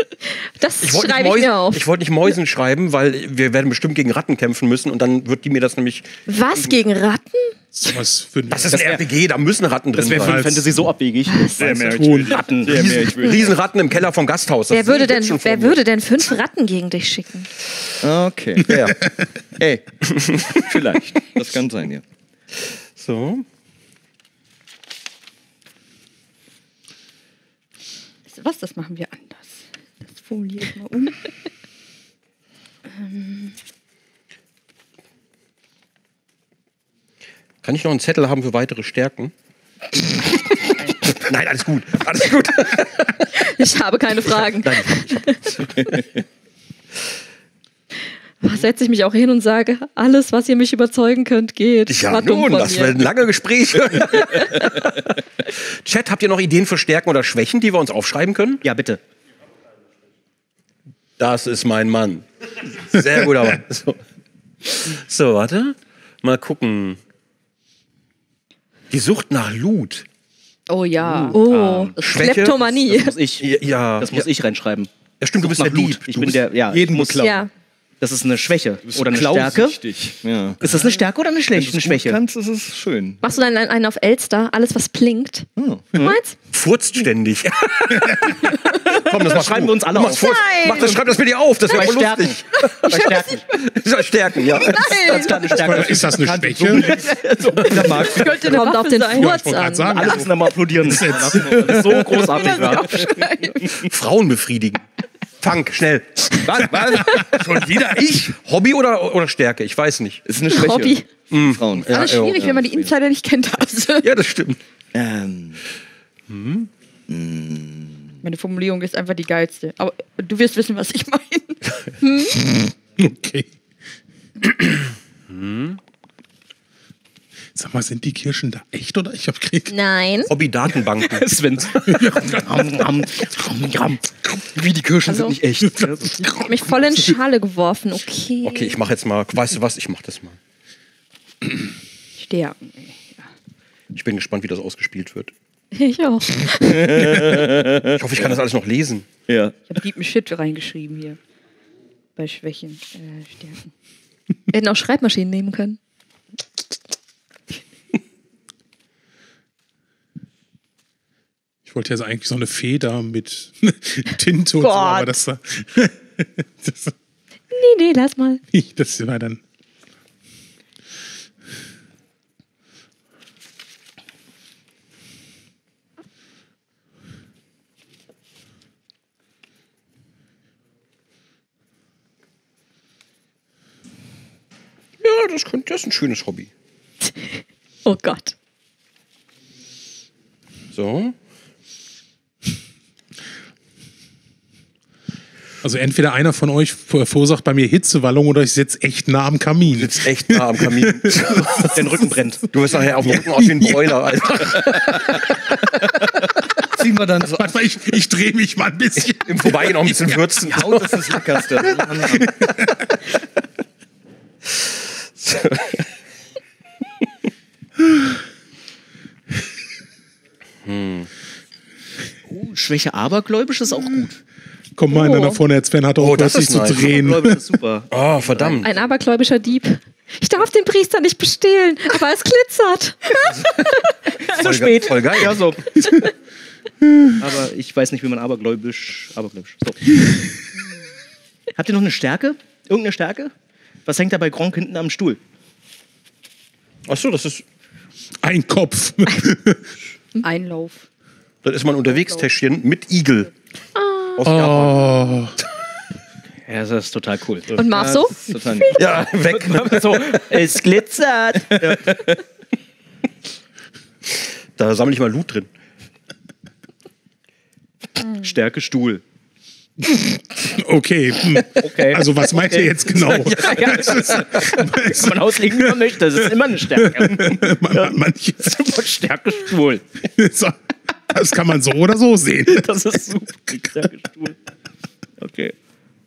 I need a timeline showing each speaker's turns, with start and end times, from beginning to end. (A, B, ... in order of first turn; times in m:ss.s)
0:00.2-0:01.9 A
0:00.8-0:06.7 B
0:06.3-0:07.6 A
0:07.7-0:09.0 C
0:08.5-0:10.5 B
0:10.0-0:12.9 D
0:10.0-0:10.7 C
0:11.6-0:13.5 E
0:11.7-0:12.4 C
0:12.7-0:15.8 B
0:14.7-0:17.5 A
0:18.0-0:19.0 E
0:18.6-0:19.0 B
0:19.6-0:22.0 E
0:20.1-0:21.0 B
0:22.6-0:23.4 B
0:28.3-0:31.3 F
0:32.9-0:33.5 F
0:37.6-0:39.3 B
0:40.2-0:43.3 B
0:43.3-0:45.9 A
0:48.4-0:52.9 A
0:51.9-0:58.6 B
0:58.6-0:59.0 D
1:01.2-1:04.0 B
1:04.6-1:07.0 B
1:08.9-1:10.0 B
1:10.7-1:11.4 F
1:11.0-1:12.3 D
1:11.3-1:13.1 A
1:12.0-1:12.6 B
1:12.8-1:17.4 D
1:13.4-1:14.3 B
1:15.2-1:16.4 B
1:16.7-1:17.4 E
1:17.2-1:17.5 A
1:18.0-1:19.8 D
1:18.8-1:20.6 E
1:20.6-1:22.2 D
1:21.5-1:23.2 E
1:23.2-1:26.4 A
1:25.6-1:25.9 E
1:26.5-1:35.2 B
1:28.4-1:33.5 D
1:30.2-1:30.9 A
1:34.5-1:35.4 F
1:34.6-1:35.4 A
1:34.7-1:38.3 D
1:35.5-1:37.0 C
1:36.0-1:38.6 E
1:37.8-1:39.4 F
1:38.3-1:40.2 A
1:39.0-1:41.6 C
1:39.9-1:43.3 D
1:41.3-1:42.4 E
1:42.0-1:43.7 F
1:43.6-1:44.9 B
1:45.4-1:50.2 B
1:46.4-1:48.4 E
1:50.2-1:51.9 E
1:50.5-1:51.0 A
1:51.3-1:52.6 B
1:51.9-1:54.1 F
1:54.0-1:54.6 B
1:54.9-1:55.6 E
1:56.3-1:56.7 B
1:57.1-1:58.2 E
1:58.2-2:01.6 F
2:02.0-2:02.4 A
2:02.3-2:03.5 C
2:05.3-2:05.8 B
2:07.5-2:09.7 C
2:09.7-2:10.3 A
2:10.3-2:12.6 B
2:10.7-2:16.4 D
2:11.9-2:12.3 C
2:15.1-2:15.3 A
2:15.7-2:16.6 C
2:16.4-2:18.8 A
2:18.4-2:20.4 B
2:22.2-2:23.3 F
2:23.9-2:25.3 B
2:25.7-2:27.4 A
2:26.6-2:28.3 E
2:27.8-2:29.1 B
2:29.3-2:29.5 E
2:29.7-2:31.2 F
2:32.2-2:33.7 F
2:34.5-2:35.8 A
2:41.6-2:46.9 C
2:44.6-2:45.2 A
2:47.5-2:48.4 A
2:48.5-2:49.4 C
3:05.0-3:06.5 B
3:07.2-3:08.3 A
3:10.7-3:11.1 B
3:15.6-3:21.8 C
3:19.7-3:21.7 B
3:21.6-3:22.5 D
3:22.5-3:25.4 B
3:23.0-3:24.0 C
3:24.5-3:25.0 C
3:26.7-3:27.4 E
3:27.2-3:29.9 C
3:29.0-3:31.4 B
3:30.4-3:32.3 E
3:32.1-3:32.7 C
3:35.2-3:35.9 B
3:40.6-3:41.1 B
3:42.3-3:44.2 D
3:44.8-3:47.4 C
3:44.9-3:45.4 A
3:46.0-3:47.0 B
3:46.8-3:48.6 D
3:47.9-3:48.7 B
3:48.6-3:53.9 A
3:54.3-3:55.8 D
3:54.3-3:55.5 B
3:57.2-4:00.0 D
4:01.6-4:03.3 D
4:03.8-4:05.2 D
4:06.9-4:07.4 B
4:08.2-4:09.6 C
4:10.2-4:10.8 F
4:11.4-4:13.3 B
4:13.8-4:14.4 A
4:14.2-4:14.9 B
4:14.2-4:15.4 C
4:16.4-4:17.5 D
4:17.5-4:18.7 A
4:17.6-4:18.8 E
4:18.7-4:20.4 B
4:19.2-4:21.9 D
4:21.6-4:22.2 E
4:24.6-4:25.5 B
4:28.0-4:29.0 D
4:29.8-4:35.9 C
4:31.6-4:39.8 D
4:36.8-4:38.6 C
4:40.1-4:40.6 C
4:41.1-4:42.7 C
4:42.4-4:44.4 D
4:45.2-4:45.5 D